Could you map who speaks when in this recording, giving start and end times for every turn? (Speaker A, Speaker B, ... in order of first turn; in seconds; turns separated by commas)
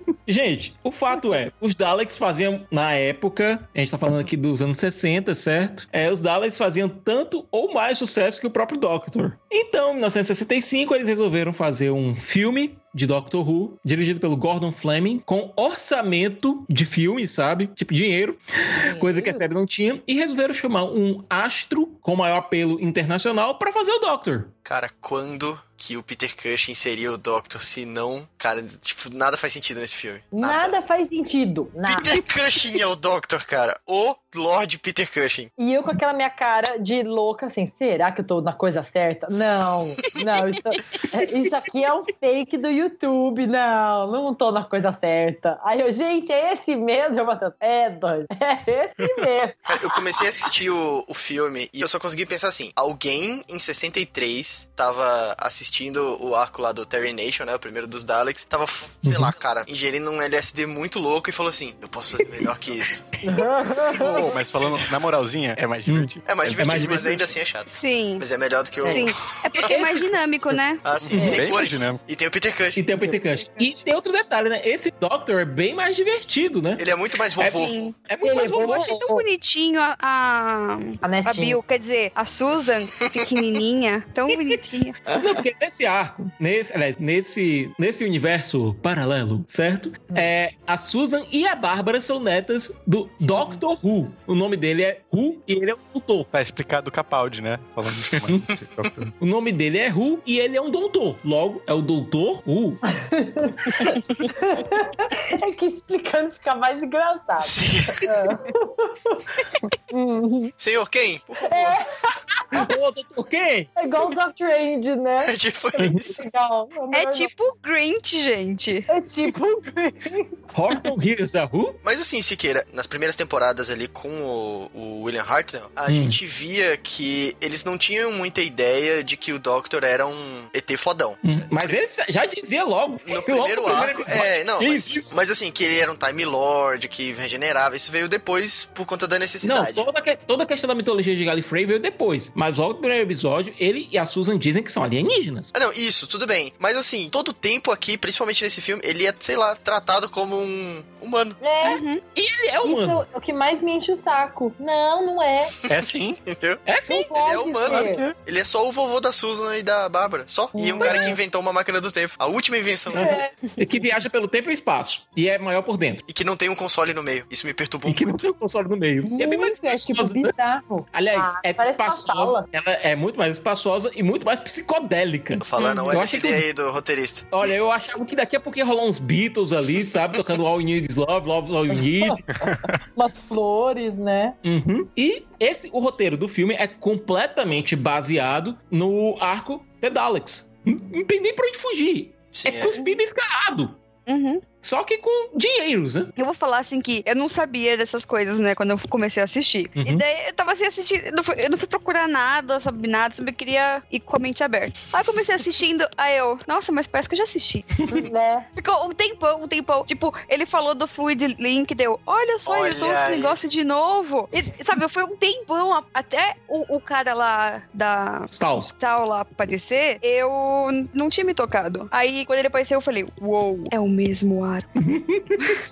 Speaker A: 0.3-24.5, Speaker B: 18.8-19.5, Speaker C: 24.6-30.8, Speaker B: 30.3-32.1, Speaker C: 31.9-35.5, Speaker B: 35.6-49.8, Speaker C: 49.7-63.1, Speaker A: 59.0-59.3, Speaker B: 63.2-64.2, Speaker D: 63.9-66.2, Speaker A: 65.9-67.3, Speaker C: 66.2-70.1, Speaker E: 67.7-68.2, Speaker E: 68.9-70.8, Speaker C: 70.8-72.9, Speaker D: 71.0-72.0, Speaker A: 71.1-71.4, Speaker A: 72.8-76.8, Speaker E: 73.0-73.8, Speaker C: 76.8-77.9, Speaker A: 77.4-79.1, Speaker E: 77.5-85.0, Speaker B: 78.2-79.2, Speaker B: 81.0-81.6, Speaker C: 83.0-83.3, Speaker A: 85.1-96.3, Speaker E: 93.2-93.6, Speaker D: 96.3-99.1, Speaker A: 98.1-98.4, Speaker A: 99.2-102.8, Speaker B: 102.9-109.3, Speaker C: 107.4-108.1, Speaker B: 109.9-110.5, Speaker C: 110.6-111.8, Speaker B: 111.4-112.6, Speaker A: 112.5-113.7, Speaker B: 113.8-117.3, Speaker C: 115.2-116.2, Speaker E: 116.9-118.9, Speaker B: 118.9-120.9, Speaker A: 120.5-121.8, Speaker C: 121.8-131.8, Speaker A: 125.9-126.2, Speaker A: 131.2-135.2, Speaker C: 133.1-139.8, Speaker A: 139.4-145.5, Speaker C: 145.5-151.4, Speaker B: 151.4-151.8, Speaker E: 151.6-152.0, Speaker A: 152.1-153.0, Speaker B: 152.6-155.5, Speaker D: 155.7-156.2, Speaker C: 155.8-156.6, Speaker A: 156.7-157.1, Speaker B: 156.8-158.0, Speaker C: 157.1-163.2, Speaker D: 157.7-158.1, Speaker B: 160.5-161.2, Speaker A: 162.9-166.0, Speaker B: 162.9-163.3, Speaker C: 166.1-168.2, Speaker A: 167.8-170.3, Speaker B: 169.0-172.4, Speaker A: 170.9-176.4, Speaker C: 175.4-177.2, Speaker A: 177.3-182.2, Speaker B: 181.8-184.4, Speaker D: 182.4-182.8, Speaker A: 184.4-193.8, Speaker C: 192.3-192.7, Speaker E: 194.1-194.4, Speaker A: 194.6-196.1, Speaker E: 196.2-207.8, Speaker A: 199.8-200.0, Speaker B: 207.9-208.5, Speaker E: 208.6-224.7, Speaker C: 212.4-213.4, Speaker A: 218.3-218.7, Speaker A: 224.8-225.6